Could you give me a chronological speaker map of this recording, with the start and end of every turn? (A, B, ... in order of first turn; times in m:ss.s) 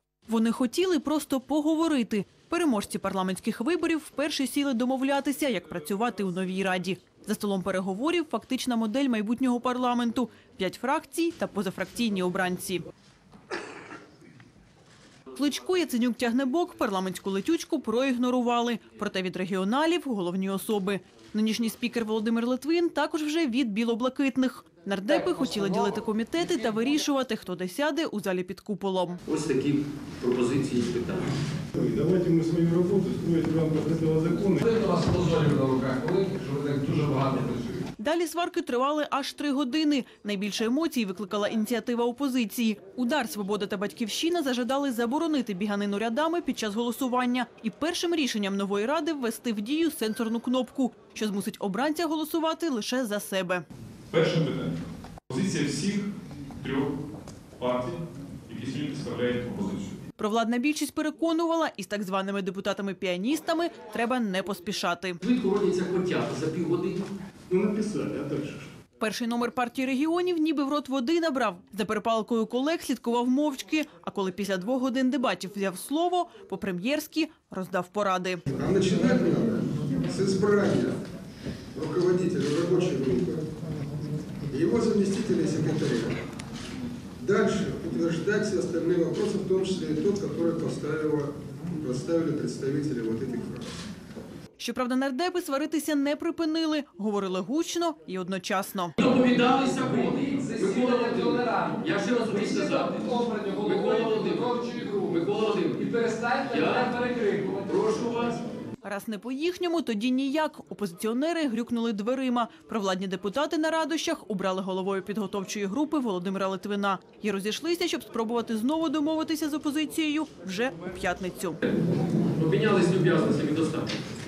0:00.3-0:12.8 A
0:15.3-0:29.2 A
0:29.2-0:31.3 B
0:31.8-0:34.6 C
0:34.6-0:37.8 D
0:38.0-0:53.6 A
0:54.1-0:54.8 E
0:55.3-0:56.9 E
0:57.6-1:00.0 E
1:00.2-1:05.2 A
1:05.2-1:07.0 B
1:07.5-1:08.7 C
1:09.0-1:18.4 A
1:18.5-1:21.0 F
1:21.7-1:23.4 F
1:24.5-1:26.2 F
1:27.2-1:33.7 F
1:34.6-1:39.0 A
1:39.0-1:43.0 B
1:39.6-1:47.8 D
1:43.6-1:45.9 B
1:46.5-1:47.0 B
1:47.6-1:48.4 B
1:48.8-2:01.6 A
2:02.3-2:04.0 B